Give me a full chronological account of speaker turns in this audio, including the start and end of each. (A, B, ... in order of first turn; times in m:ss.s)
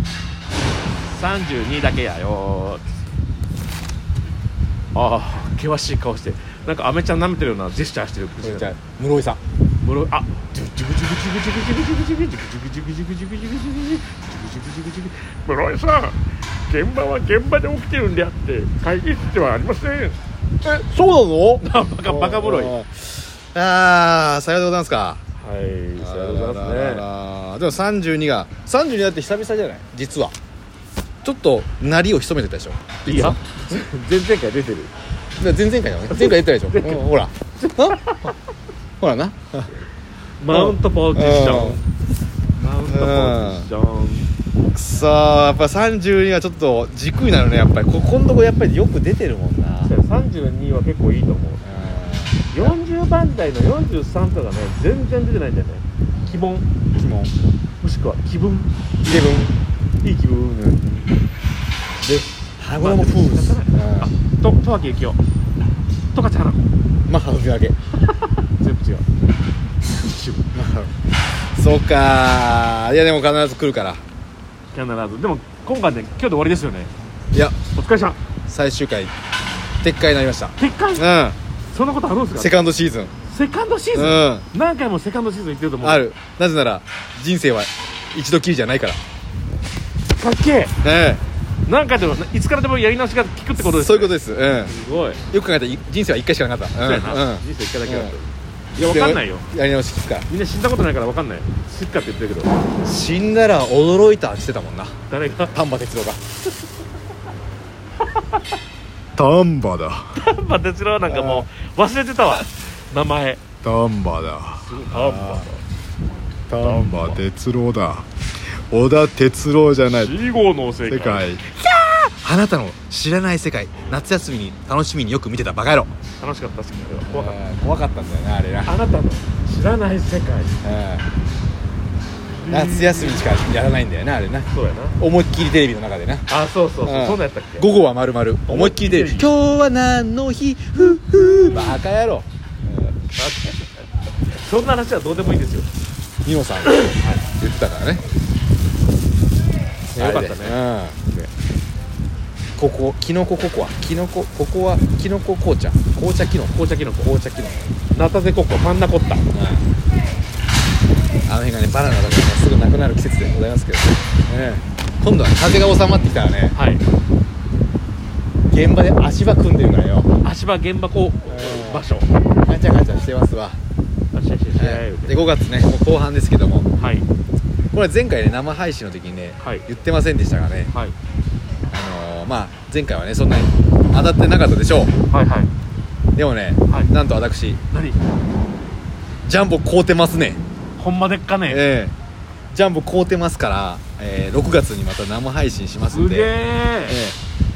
0:01.1-0:02.8 A
0:04.9-0:08.7 A
0:08.4-0:09.4 B
0:09.8-0:20.2 A
0:20.6-0:25.2 B
0:21.6-0:22.8 A
0:25.4-0:27.0 A
0:26.0-0:30.3 B
0:31.2-0:33.4 B
0:33.1-0:34.9 A
0:35.4-0:38.3 B
0:36.1-0:37.1 A
0:37.6-0:38.3 A
0:39.0-0:39.7 B
0:40.4-0:41.9 A
0:40.5-0:41.8 B
0:42.6-0:44.3 A
0:42.9-0:43.7 B
0:44.8-0:49.9 B
0:49.8-0:52.0 A
0:51.6-0:52.8 B
0:52.5-0:56.7 A
0:56.1-0:56.4 B
0:57.0-0:57.3 B
0:57.8-0:58.7 A
0:59.0-0:59.6 B
1:00.0-1:01.2 A
1:02.0-1:05.2 A
1:02.6-1:04.1 B
1:06.1-1:06.7 A
1:07.1-1:07.8 B
1:08.0-1:09.0 A
1:09.8-1:10.4 A
1:10.5-1:10.9 B
1:11.6-1:14.0 B
1:14.7-1:16.9 A
1:17.7-1:18.2 A
1:18.5-1:19.1 B
1:19.8-1:21.4 B
1:20.6-1:21.1 A
1:21.7-1:22.6 A
1:22.4-1:23.1 B
1:23.2-1:26.0 A
1:23.9-1:24.5 B
1:25.8-1:29.0 B
1:30.2-1:30.7 A
1:30.8-1:31.2 B
1:31.7-1:35.2 A
1:33.6-1:34.7 B
1:35.3-1:38.2 B
1:36.8-1:39.5 A
1:38.8-1:40.3 B
1:40.3-1:42.6 A
1:42.8-1:45.0 B
1:45.1-1:45.6 A
1:45.5-1:46.2 B
1:49.2-1:50.2 B
1:50.2-1:53.4 A
1:51.1-1:51.5 B
1:53.6-1:55.5 B
1:54.6-1:55.6 A
1:56.5-1:58.1 B
1:56.6-1:57.2 A
1:58.7-2:00.2 B
1:59.9-2:01.3 A
2:00.9-2:05.9 B
2:06.2-2:07.4 A
2:07.0-2:08.7 B
2:08.6-2:10.6 A
2:10.6-2:11.1 B
2:12.4-2:13.3 A
2:12.5-2:14.5 B
2:14.5-2:15.0 A
2:15.0-2:16.2 B
2:16.3-2:17.7 A
2:16.8-2:22.9 B
2:18.5-2:19.3 A
2:23.2-2:23.7 A
2:24.3-2:25.7 A
2:26.2-2:26.8 B
2:26.6-2:27.3 A
2:27.4-2:28.0 B
2:29.9-2:31.0 B
2:30.0-2:31.3 A
2:32.6-2:37.7 B
2:36.5-2:37.1 A
2:37.9-2:39.3 A
2:39.3-2:39.7 B
2:41.3-2:46.6 B
2:46.5-2:46.8 A
2:48.5-2:50.1 B
2:50.2-2:52.1 A
2:51.3-2:51.8 B
2:52.5-2:53.6 B
2:54.1-2:55.3 A
2:54.6-2:56.7 B
2:56.8-2:57.1 A
2:57.7-3:00.7 B
2:59.4-2:59.6 A
3:01.7-3:04.9 B
3:05.1-3:05.5 A
3:06.2-3:07.6 B
3:06.7-3:06.9 A
3:07.7-3:08.0 A
3:09.2-3:10.4 B
3:10.8-3:11.6 A
3:11.5-3:11.9 B
3:12.5-3:16.3 B
3:15.9-3:17.0 A
3:16.9-3:17.2 B